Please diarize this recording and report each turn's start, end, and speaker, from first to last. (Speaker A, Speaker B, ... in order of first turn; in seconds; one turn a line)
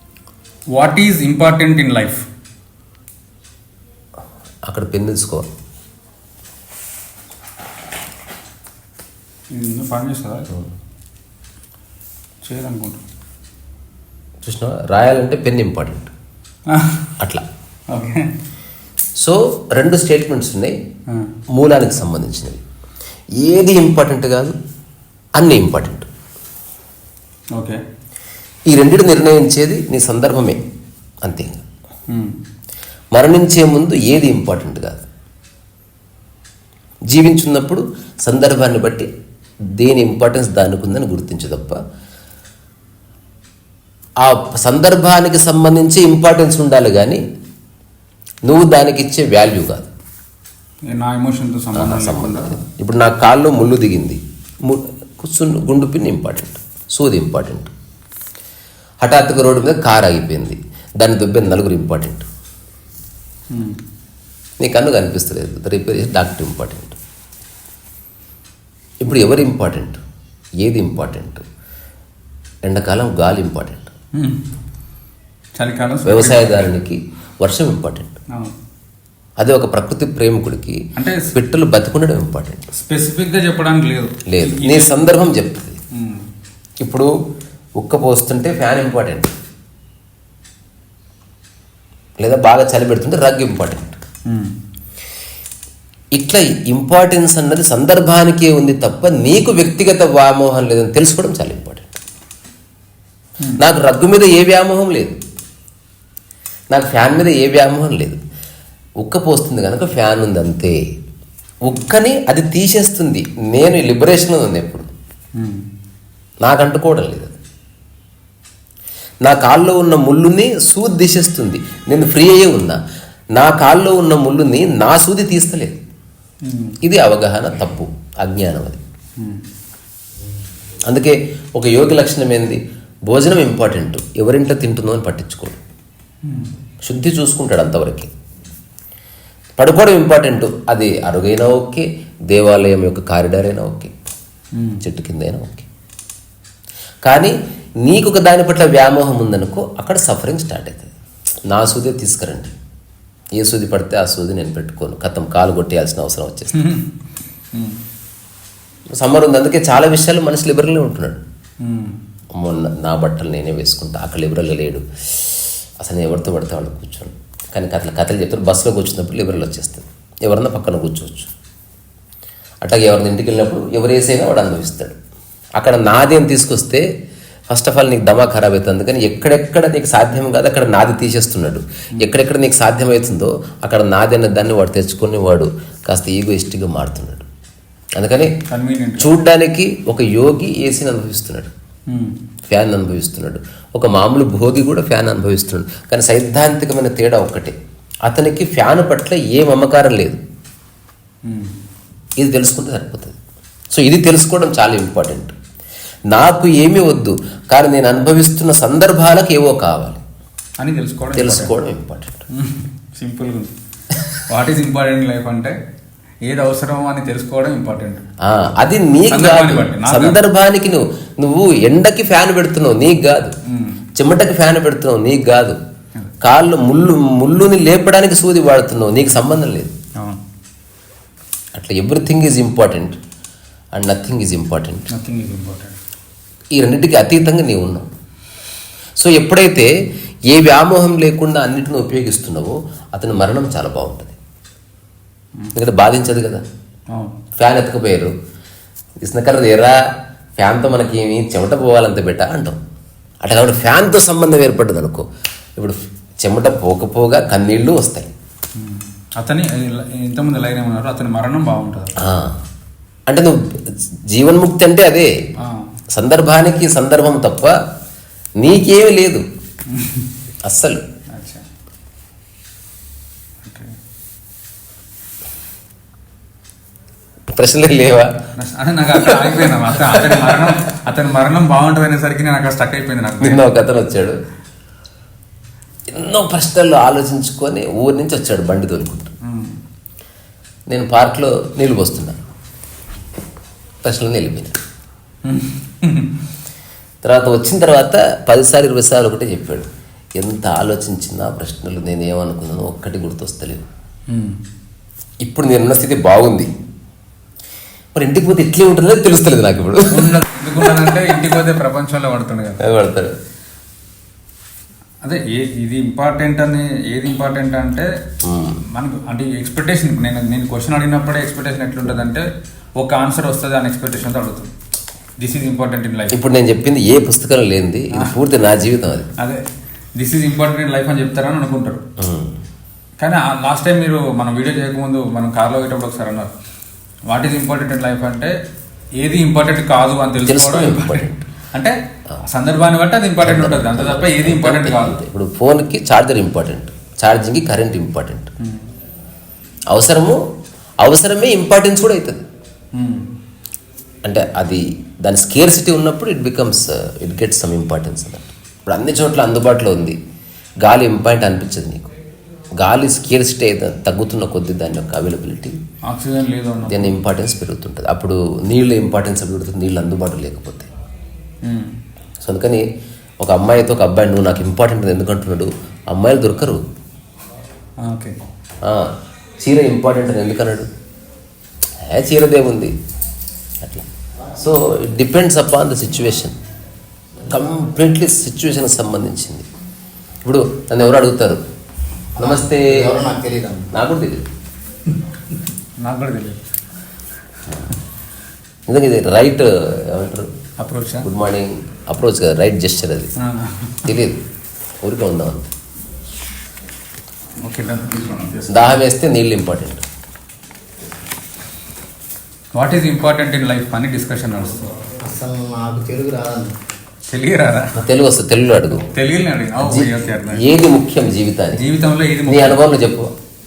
Speaker A: 0.7-2.2
Speaker B: 4.7-5.5
Speaker A: 9.5-10.5
Speaker A: 12.4-13.0
Speaker B: 14.4-16.1
Speaker A: 16.7-17.1
Speaker B: 17.2-17.4
Speaker A: 17.9-18.3
Speaker B: 19.2-20.8
Speaker B: 21.5-22.6
Speaker B: 23.4-24.5
Speaker B: 25.4-26.1
Speaker A: 27.5-27.8
Speaker B: 28.7-30.6
Speaker B: 31.2-31.6
Speaker A: 32.1-32.4
Speaker B: 33.1-35.0
Speaker B: 37.1-39.1
Speaker B: 39.8-41.8
Speaker B: 44.2-47.2
Speaker B: 48.4-49.9
Speaker A: 50.9-52.6
Speaker B: 51.7-57.7
Speaker B: 59.0-62.2
Speaker A: 63.5-63.8
Speaker B: 64.6-67.0
Speaker B: 69.0-70.0
Speaker B: 70.6-71.4
Speaker B: 72.6-73.9
Speaker A: 74.1-74.4
Speaker A: 75.5-76.7
Speaker B: 76.0-78.2
Speaker B: 79.4-82.6
Speaker A: 81.0-81.3
Speaker A: 82.7-85.0
Speaker B: 84.3-85.8
Speaker A: 85.9-86.2
Speaker B: 86.8-87.1
Speaker B: 87.8-89.3
Speaker B: 92.2-94.0
Speaker A: 94.3-94.5
Speaker B: 96.1-102.0
Speaker B: 103.6-105.2
Speaker B: 106.7-108.2
Speaker B: 109.0-110.8
Speaker B: 111.6-114.9
Speaker A: 115.3-115.7
Speaker B: 116.4-117.4
Speaker B: 119.2-122.8
Speaker B: 123.3-125.8
Speaker A: 126.4-126.8
Speaker B: 126.8-128.8
Speaker B: 130.9-135.6
Speaker A: 136.2-136.5
Speaker B: 136.8-138.1
Speaker B: 139.6-144.0
Speaker A: 144.5-144.8
Speaker B: 144.8-145.7
Speaker B: 147.0-150.9
Speaker B: 151.5-152.5
Speaker B: 153.3-156.5
Speaker A: 156.5-156.9
Speaker A: 157.5-157.8
Speaker B: 159.0-161.2
Speaker A: 161.6-162.0
Speaker B: 162.3-171.3
Speaker B: 172.6-175.0
Speaker B: 175.6-176.8
Speaker B: 177.5-187.2
Speaker B: 187.9-188.3
Speaker A: 188.5-189.1
Speaker B: 189.0-191.5
Speaker A: 191.9-192.2
Speaker B: 192.5-200.2
Speaker A: 201.2-201.6
Speaker B: 202.2-203.2
Speaker B: 203.7-205.3
Speaker B: 206.1-210.0
Speaker A: 210.6-211.5
Speaker B: 211.1-212.2
Speaker A: 212.3-213.5
Speaker A: 214.3-215.6
Speaker A: 216.2-218.0
Speaker B: 218.2-223.3
Speaker A: 219.1-220.2
Speaker A: 223.5-223.8
Speaker B: 223.9-225.6
Speaker B: 226.2-229.7
Speaker B: 231.5-233.0
Speaker B: 233.7-234.9
Speaker A: 234.9-235.8
Speaker B: 236.5-237.9
Speaker B: 239.0-239.7
Speaker B: 240.3-244.1
Speaker B: 245.5-246.4
Speaker A: 246.9-247.2
Speaker B: 247.4-248.1
Speaker B: 249.0-249.8
Speaker B: 250.4-252.6
Speaker B: 253.2-258.1
Speaker A: 258.6-262.0
Speaker B: 262.0-262.4
Speaker B: 263.1-265.1
Speaker A: 265.4-265.7
Speaker B: 265.9-267.5
Speaker B: 268.4-269.2
Speaker A: 269.7-270.1
Speaker B: 270.4-270.8
Speaker A: 271.1-271.4
Speaker A: 273.4-273.8
Speaker B: 277.3-278.1
Speaker A: 278.4-283.4
Speaker B: 279.0-280.6
Speaker B: 283.2-284.1
Speaker B: 285.9-289.1
Speaker A: 289.2-289.6
Speaker B: 290.7-292.2
Speaker B: 293.8-294.6
Speaker A: 295.2-296.1
Speaker B: 297.0-303.6
Speaker A: 304.1-304.4
Speaker B: 305.2-306.5
Speaker B: 307.9-310.2
Speaker A: 309.9-312.6
Speaker B: 312.6-313.1
Speaker A: 315.0-317.9
Speaker B: 318.2-318.6
Speaker A: 318.7-322.3
Speaker A: 322.8-324.5
Speaker A: 325.2-326.1
Speaker B: 326.1-329.1
Speaker A: 329.9-331.8
Speaker B: 332.0-332.4
Speaker A: 333.0-336.3
Speaker A: 337.1-338.3
Speaker A: 339.0-341.7
Speaker B: 340.2-341.2
Speaker A: 342.2-345.0
Speaker B: 343.2-348.3
Speaker B: 349.7-350.2
Speaker B: 350.8-352.2
Speaker A: 352.8-353.1
Speaker B: 354.0-360.0
Speaker B: 360.6-361.9
Speaker B: 362.6-365.6
Speaker A: 365.9-366.9
Speaker B: 366.7-370.7
Speaker A: 371.4-371.7
Speaker B: 372.2-372.6
Speaker B: 373.2-376.6
Speaker A: 377.8-378.1
Speaker B: 378.6-380.7
Speaker B: 381.9-382.7
Speaker B: 383.6-386.4
Speaker B: 387.3-389.4
Speaker B: 390.2-391.4
Speaker C: 392.2-393.7
Speaker B: 392.2-393.0
Speaker B: 393.7-394.3
Speaker A: 395.8-396.4
Speaker B: 398.7-400.3
Speaker A: 400.6-401.1
Speaker B: 401.0-403.1
Speaker A: 403.2-403.9
Speaker B: 403.8-404.2
Speaker B: 404.8-405.5
Speaker A: 407.4-408.7
Speaker B: 408.5-409.8
Speaker A: 412.5-414.6
Speaker C: 415.0-416.5
Speaker A: 417.1-417.8
Speaker B: 417.8-418.9
Speaker A: 418.9-420.4
Speaker B: 419.6-421.6
Speaker A: 421.5-422.6
Speaker B: 422.2-423.1